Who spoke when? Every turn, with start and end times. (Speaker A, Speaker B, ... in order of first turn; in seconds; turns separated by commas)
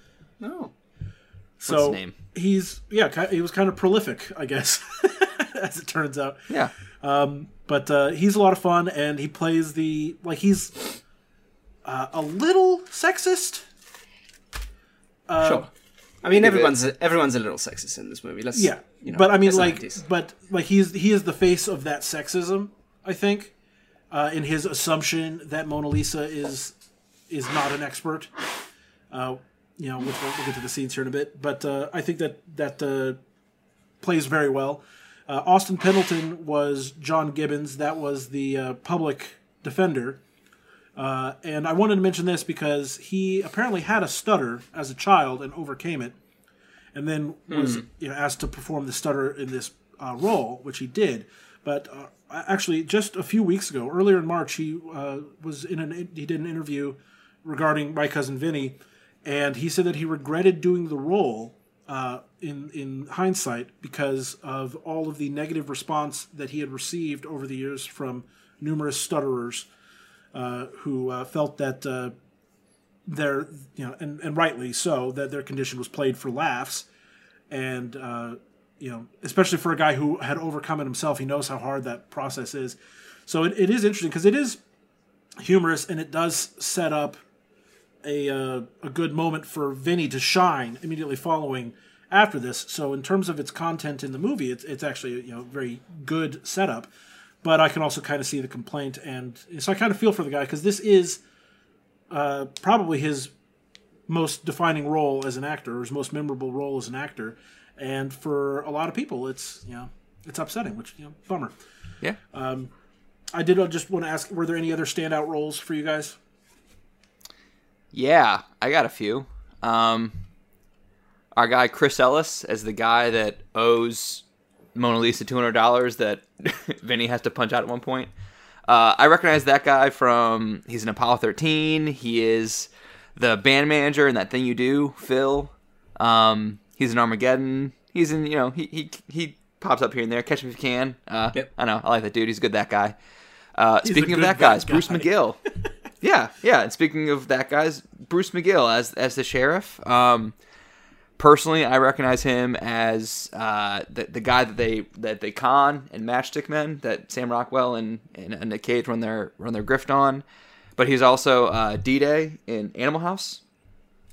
Speaker A: 0.4-0.7, Speaker B: 1.6-11.0, Speaker C: 1.7-2.1, Speaker B: 11.8-13.7, Speaker B: 15.3-15.7, Speaker A: 15.4-15.7, Speaker A: 16.2-20.0, Speaker C: 16.3-16.7, Speaker B: 18.5-23.5, Speaker B: 24.1-26.8, Speaker B: 27.3-28.3, Speaker B: 29.1-33.2, Speaker B: 34.0-40.2, Speaker B: 41.0-46.1, Speaker B: 46.9-69.7, Speaker A: 47.5-47.8, Speaker B: 70.3-72.1, Speaker B: 73.1-76.9, Speaker B: 77.5-84.6, Speaker B: 85.4-87.2, Speaker B: 88.0-96.9, Speaker B: 97.4-101.2, Speaker B: 102.1-103.3, Speaker B: 104.1-111.5, Speaker B: 112.3-112.7, Speaker B: 113.3-116.2, Speaker C: 117.9-120.2, Speaker C: 121.3-124.2, Speaker C: 124.8-128.1, Speaker C: 128.7-143.0, Speaker C: 143.6-145.4, Speaker B: 143.8-145.1, Speaker C: 146.0-150.3, Speaker C: 151.2-160.2, Speaker C: 160.8-163.4